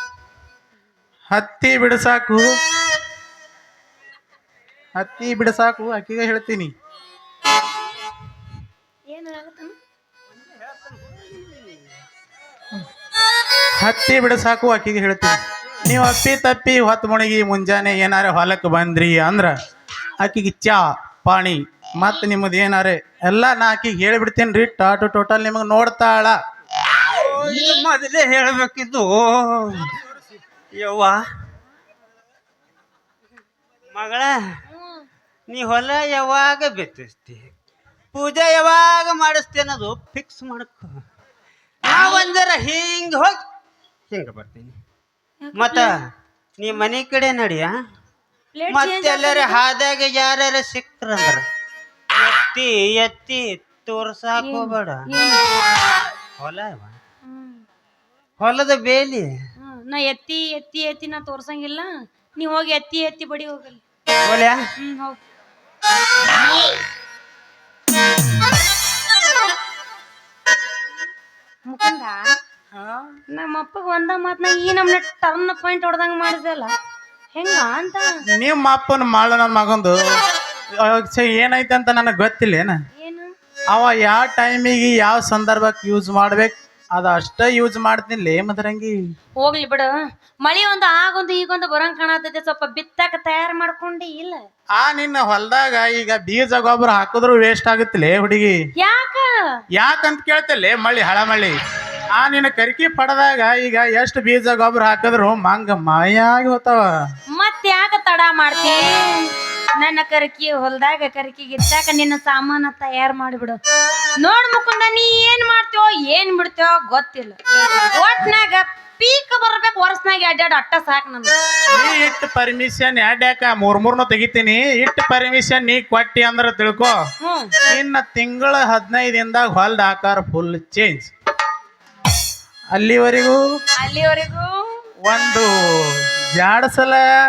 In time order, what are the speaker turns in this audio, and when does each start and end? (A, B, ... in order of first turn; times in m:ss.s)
0:01.3-0:02.4 A
0:05.0-0:06.7 A
0:09.1-0:09.8 B
0:10.8-0:11.4 C
0:13.8-0:19.5 A
0:20.2-0:26.4 A
0:27.0-0:29.9 C
0:30.8-0:31.2 C
0:33.9-0:34.3 C
0:34.7-0:35.1 B
0:35.5-0:37.5 C
0:38.1-0:41.0 C
0:41.8-0:43.4 C
0:44.1-0:44.7 C
0:45.4-0:45.9 B
0:45.6-0:45.9 C
0:46.6-0:47.7 C
0:48.6-0:49.6 B
0:48.7-0:51.4 C
0:52.1-0:55.0 C
0:54.4-0:55.4 B
0:56.4-0:57.0 C
0:57.3-0:57.6 B
0:58.4-0:59.3 C
0:59.6-1:03.8 B
1:04.2-1:04.6 C
1:04.8-1:05.2 B
1:11.7-1:12.4 B
1:12.8-1:13.2 A
1:13.4-1:16.7 B
1:17.3-1:18.2 B
1:18.4-1:20.0 A
1:20.8-1:22.8 A
1:23.0-1:23.3 B
1:23.7-1:29.0 A
1:29.4-1:34.4 B
1:34.8-1:38.6 A
1:38.8-1:39.3 B
1:39.8-1:41.6 A
1:42.2-1:46.8 A
1:47.3-1:53.6 B
1:54.2-1:57.4 B
1:57.9-2:01.4 B
2:01.7-2:07.0 A
2:07.2-2:07.5 B
2:07.7-2:11.1 A
2:12.7-2:13.4 A
2:13.8-2:14.8 B
2:15.1-2:17.0 A